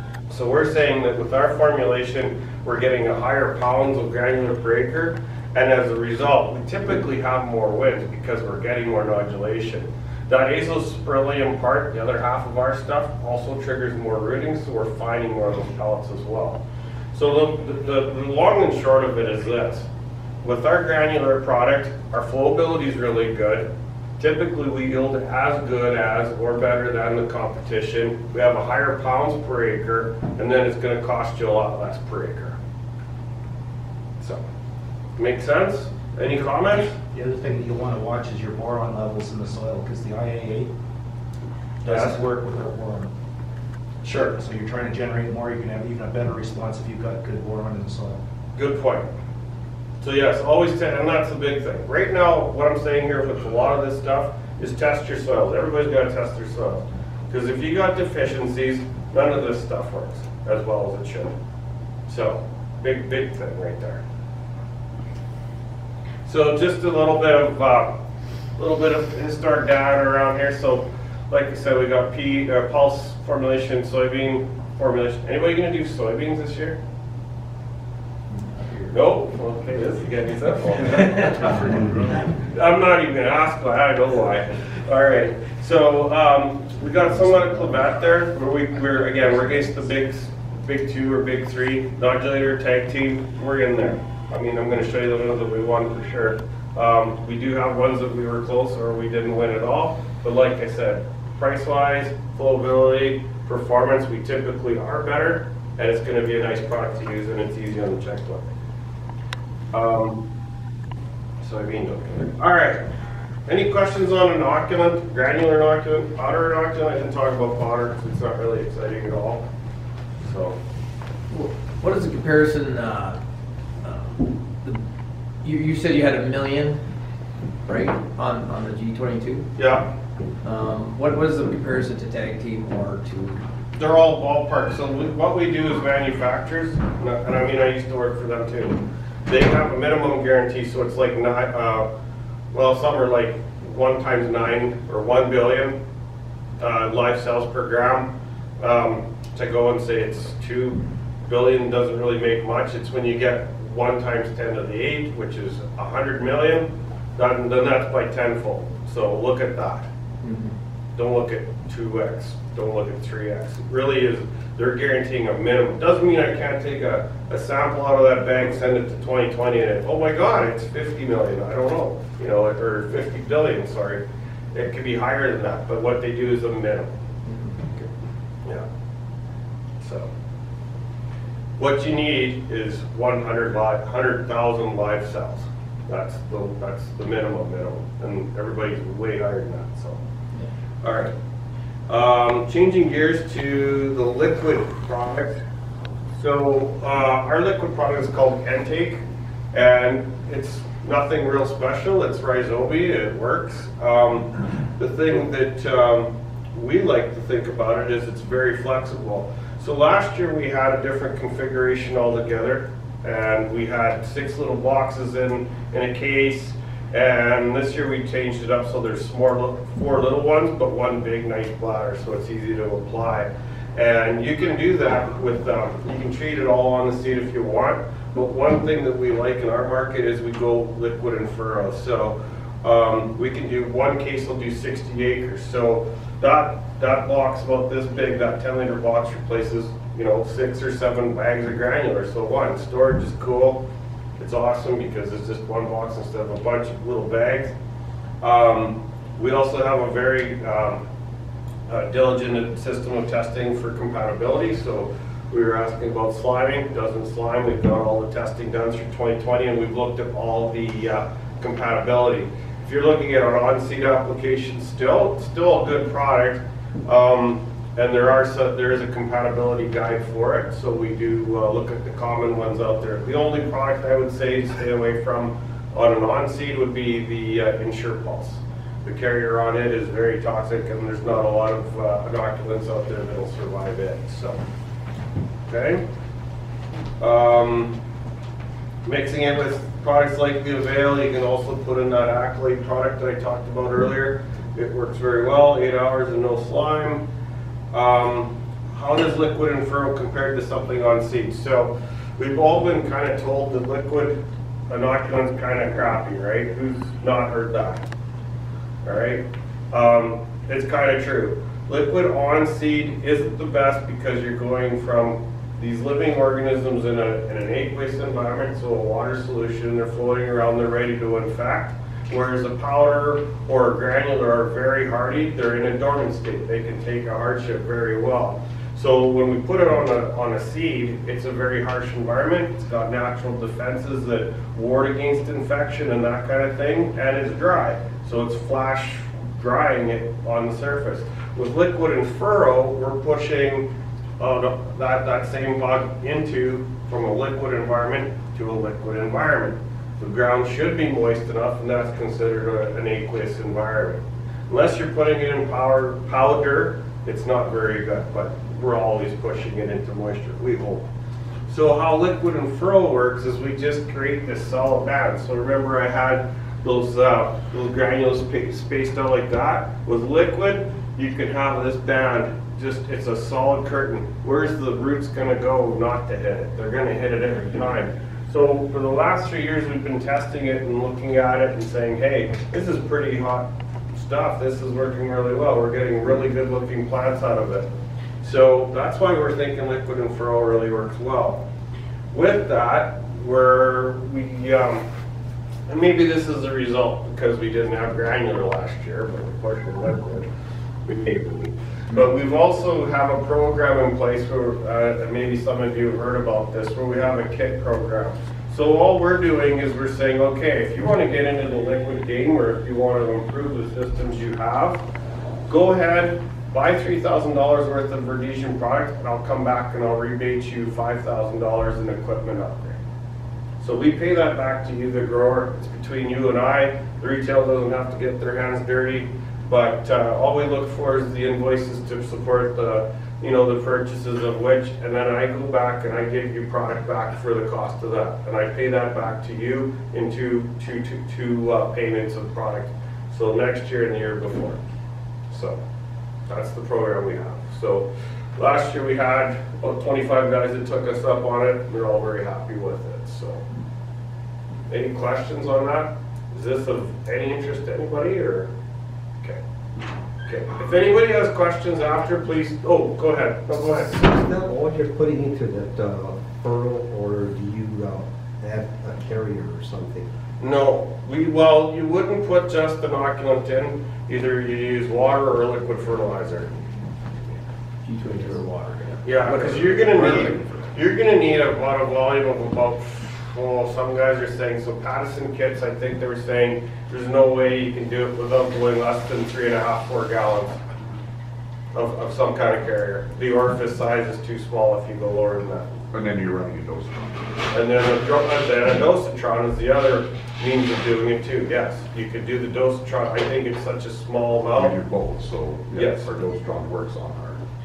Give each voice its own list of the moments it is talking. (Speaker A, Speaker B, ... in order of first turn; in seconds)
Speaker A: 0.3-16.6, 17.1-19.9, 20.4-32.6, 34.2-34.5, 35.2-37.0, 41.9-42.3, 44.0-44.4, 48.5-49.1, 50.0-61.4, 62.1-64.0, 66.3-68.0, 68.6-76.8, 78.9-81.7, 82.4-108.5, 109.7-110.2, 111.4-112.9, 113.5-119.5, 120.2-120.6, 129.6-129.9, 133.8-141.9, 142.5-145.8, 146.6-159.9, 161.0-177.0, 179.8-180.1, 181.6-190.0, 190.8-191.1, 191.9-195.4, 196.2-199.0, 199.5-243.6, 244.2-247.5, 248.2-250.8, 251.7-284.4, 285.5-285.8, 287.0-287.8, 288.9-297.1, 297.7-304.2, 304.7-307.9, 308.8-343.7, 344.2-360.9, 361.5-387.7, 388.2-391.4, 392.1-394.9, 395.7-400.3, 400.9-414.8, 415.5-422.8, 423.6-444.6, 445.3-445.6, 446.3-453.4, 454.7-458.5, 460.3-464.0, 470.4-476.5, 479.0-490.6, 491.7-495.7, 497.5-504.8, 505.7-506.1
Speaker B: 37.1-40.7, 41.8-43.1, 44.3-48.2, 81.5-81.9
Speaker C: 121.3-123.2, 123.8-124.8, 125.4-126.8, 127.7-129.5, 130.4-133.4, 160.2-160.6, 177.3-177.6, 477.9-480.5
Speaker D: 463.5-470.1, 478.1-478.8
Speaker E: 495.9-497.4, 504.6-507.4